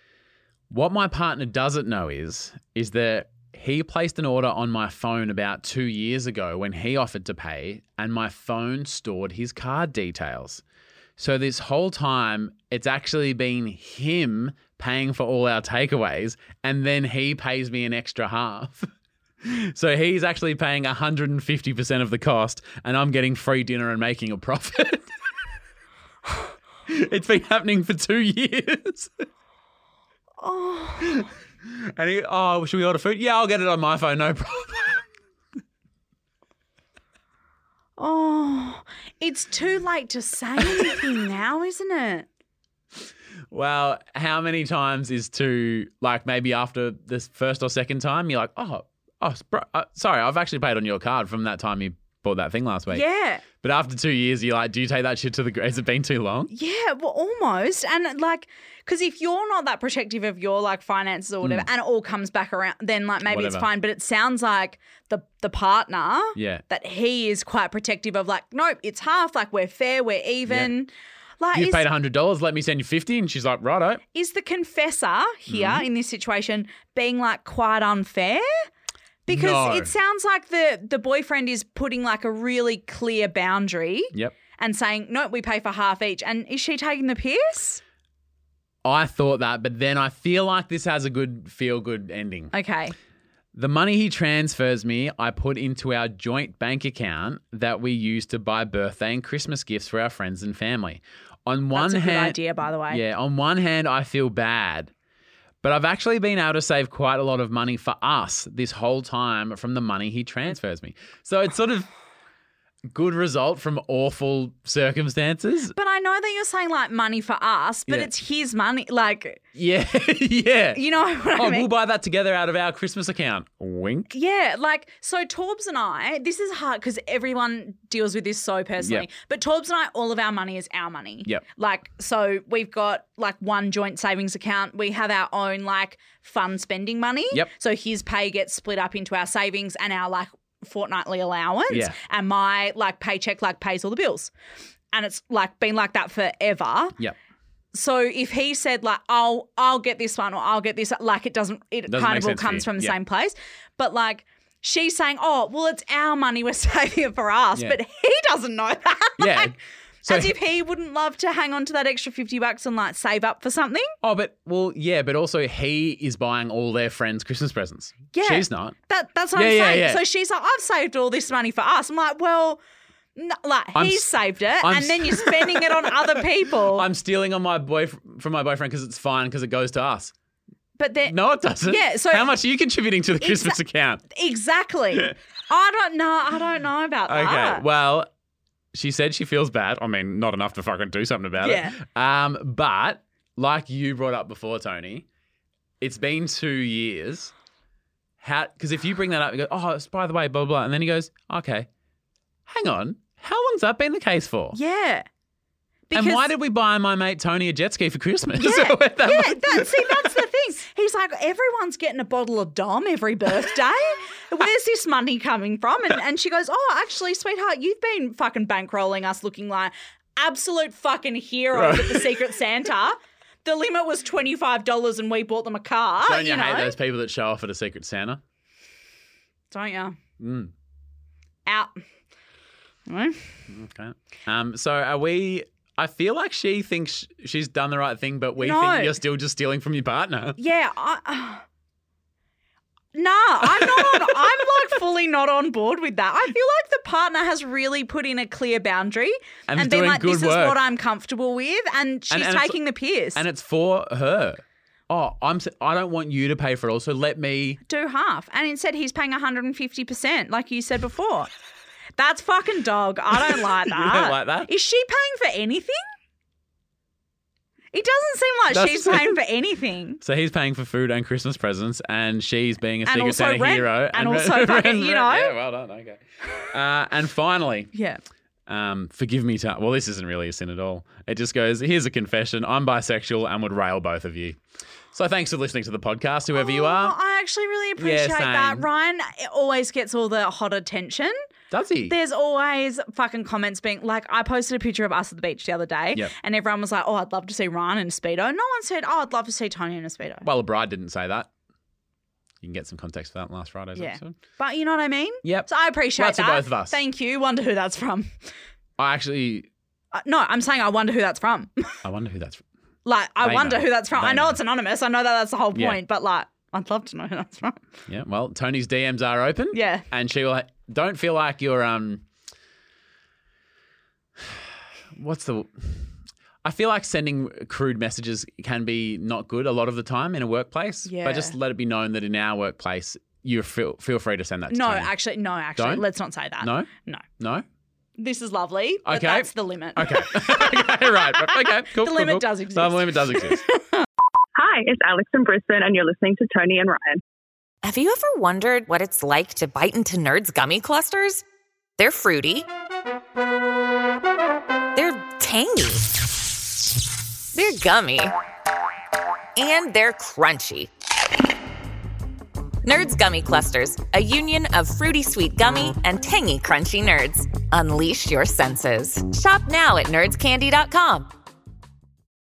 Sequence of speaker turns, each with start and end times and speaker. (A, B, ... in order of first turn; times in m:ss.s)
0:00.7-0:10.6 A
0:11.2-0:18.9 A
0:19.4-0:25.1 A
0:26.9-0:29.1 A
0:30.4-0:31.3 B
0:31.0-0:35.0 A
0:38.0-0:42.3 B
0:43.5-0:53.0 A
0:52.9-0:53.4 B
0:53.6-0:56.5 A
0:56.5-1:11.8 B
1:03.2-1:03.7 A
1:06.3-1:06.6 A
1:10.5-1:10.7 A
1:11.5-1:14.0 A
1:14.1-1:18.6 B
1:15.5-1:15.8 A
1:19.2-1:27.8 B
1:19.3-1:19.9 A
1:28.8-1:32.5 A
1:32.5-1:32.9 B
1:33.5-1:44.9 A
1:41.7-1:43.0 B
1:45.6-1:51.9 A
1:52.9-1:55.7 A
1:55.7-1:59.4 B
1:59.5-2:00.8 A
2:00.7-2:01.7 B
2:01.3-2:04.1 A
2:04.1-2:24.3 B
2:08.8-2:09.0 A
2:21.7-2:21.9 A
2:24.9-2:27.0 B
2:27.7-2:43.9 B
2:31.9-2:32.9 A
2:39.2-2:40.3 A
2:44.0-2:48.7 A
2:48.1-2:52.6 B
2:49.3-2:50.0 A
2:53.2-2:56.9 B
2:53.8-3:00.1 A
3:00.8-3:02.3 B
3:01.1-3:04.0 A
3:03.2-3:03.6 B
3:04.1-3:07.6 B
3:07.1-3:08.1 A
3:08.7-3:15.0 A
3:11.4-3:11.8 B
3:15.8-3:17.3 A
3:18.2-3:21.7 A
3:22.5-3:24.6 A
3:24.5-3:25.0 B
3:25.9-3:26.3 B
3:25.9-3:30.2 A
3:28.4-3:46.7 B
3:41.5-3:42.2 A
3:46.0-3:48.2 A
3:49.5-3:50.0 B
3:50.2-3:50.5 A
3:51.5-3:51.8 B
3:52.9-3:53.3 B
3:53.5-4:00.4 A
3:58.4-3:58.9 B
4:00.4-4:01.4 B
4:02.9-4:13.2 B
4:03.6-4:04.2 A
4:09.5-4:10.6 A
4:12.1-4:12.6 A
4:13.1-4:17.6 A
4:17.6-4:21.3 B
4:22.0-4:25.8 B
4:23.3-4:24.5 A
4:27.7-4:30.0 B
4:28.5-4:29.2 A
4:30.0-4:37.7 A
4:32.8-4:35.3 B
4:37.7-4:38.0 B
4:38.5-4:44.4 A
4:44.9-4:46.9 A
4:46.3-4:51.2 B
4:47.8-4:48.6 A
4:51.5-4:51.9 A
4:51.8-5:00.3 B
5:00.2-5:01.3 A
5:02.4-5:04.1 A
5:03.8-5:08.1 B
5:05.2-5:06.8 A
5:08.8-5:09.5 A
5:09.9-5:11.8 B
5:11.8-5:12.4 A
5:12.8-5:17.6 B
5:13.2-5:14.4 A
5:15.5-5:15.8 A
5:17.9-5:22.0 A
5:19.5-5:19.8 B
5:25.0-5:25.8 A
5:26.4-5:34.9 A
5:30.8-5:31.3 B
5:34.5-5:37.0 B
5:35.6-5:35.8 A
5:36.4-5:37.4 A
5:38.0-5:43.8 B
5:38.8-5:43.4 A
5:44.4-5:47.0 C
5:47.6-5:51.2 D
5:51.8-5:52.4 D
5:54.7-5:55.9 D
5:57.3-5:58.1 D
5:59.4-6:00.7 D
6:02.6-6:11.1 D